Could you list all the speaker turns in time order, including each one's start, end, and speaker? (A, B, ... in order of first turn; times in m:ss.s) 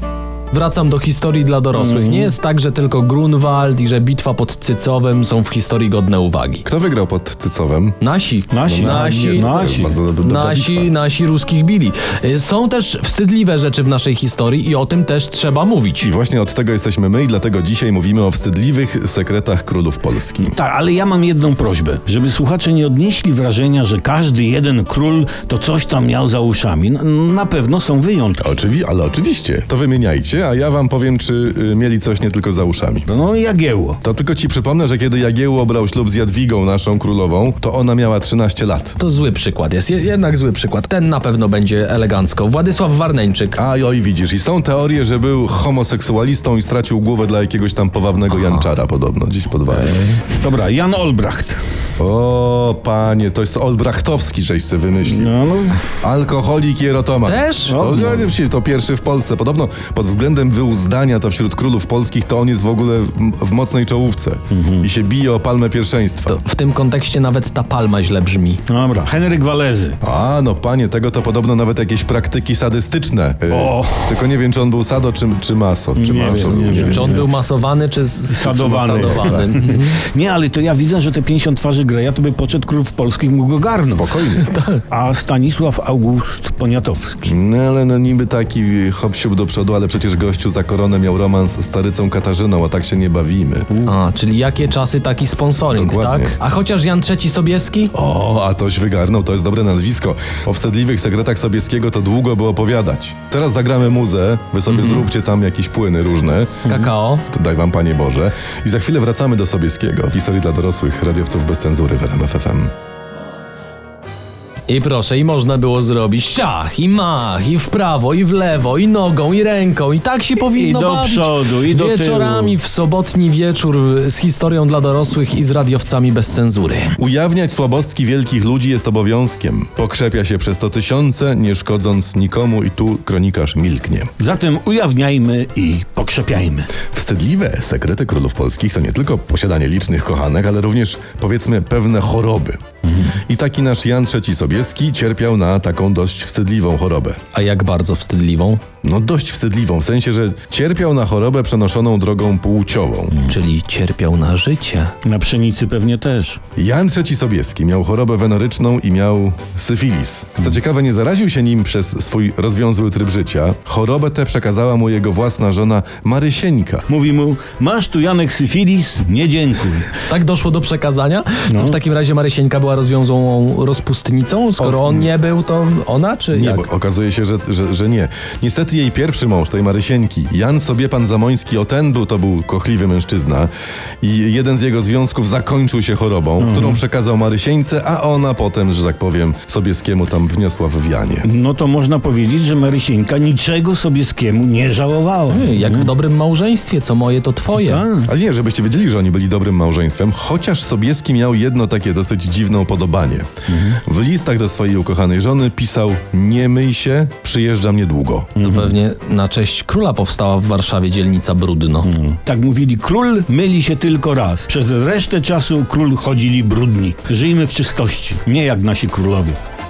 0:00.5-0:06.6 A
0:01.8-0:02.3 B
0:06.6-0:08.0 C
0:08.0-0:16.1 A
0:08.5-0:10.0 B
0:08.7-0:10.9 C
0:16.0-0:20.5 C
0:20.4-0:28.6 B
0:28.4-0:33.0 C
0:33.0-0:34.0 B
0:34.0-0:39.0 C
0:39.0-0:43.6 A
0:43.6-0:50.0 C
0:48.3-0:48.6 A
0:49.7-0:50.2 A
0:50.4-0:51.6 B
0:52.0-0:55.3 C
0:55.1-0:55.8 B
0:56.0-1:06.4 C
0:57.2-0:57.9 A
0:57.7-0:58.4 B
1:04.5-1:04.9 B
1:06.3-1:08.6 A
1:08.7-1:10.0 B
1:10.0-1:17.2 C
1:13.5-1:14.3 B
1:16.0-1:17.2 B
1:16.7-1:20.0 A
1:18.3-1:24.1 B
1:18.9-1:19.5 C
1:23.8-1:24.5 C
1:24.3-1:24.8 A
1:24.9-1:27.3 B
1:27.2-1:33.7 C
1:33.8-1:37.9 A
1:35.7-1:36.4 C
1:37.9-1:52.7 C
1:44.7-1:45.1 A
1:46.6-1:47.2 A
1:54.7-2:06.9 A
2:00.4-2:02.6 B
2:07.0-2:14.1 C
2:14.2-2:16.7 B
2:16.8-2:27.2 C
2:27.3-2:28.6 A
2:28.8-2:33.1 C
2:33.3-2:34.9 A
2:35.0-2:36.4 B
2:36.6-2:46.8 C
2:46.9-2:49.9 B
2:50.1-2:56.7 A
2:51.5-2:51.8 B
2:54.6-2:55.1 C
2:56.3-3:03.5 C
3:04.0-3:11.3 C
3:06.4-3:06.8 B
3:11.2-3:15.9 B
3:15.3-3:17.8 A
3:17.5-3:18.1 B
3:18.0-3:23.3 C
3:23.5-3:23.8 B
3:23.8-3:28.4 C
3:28.4-3:28.8 B
3:28.4-3:31.9 A
3:31.8-3:39.4 B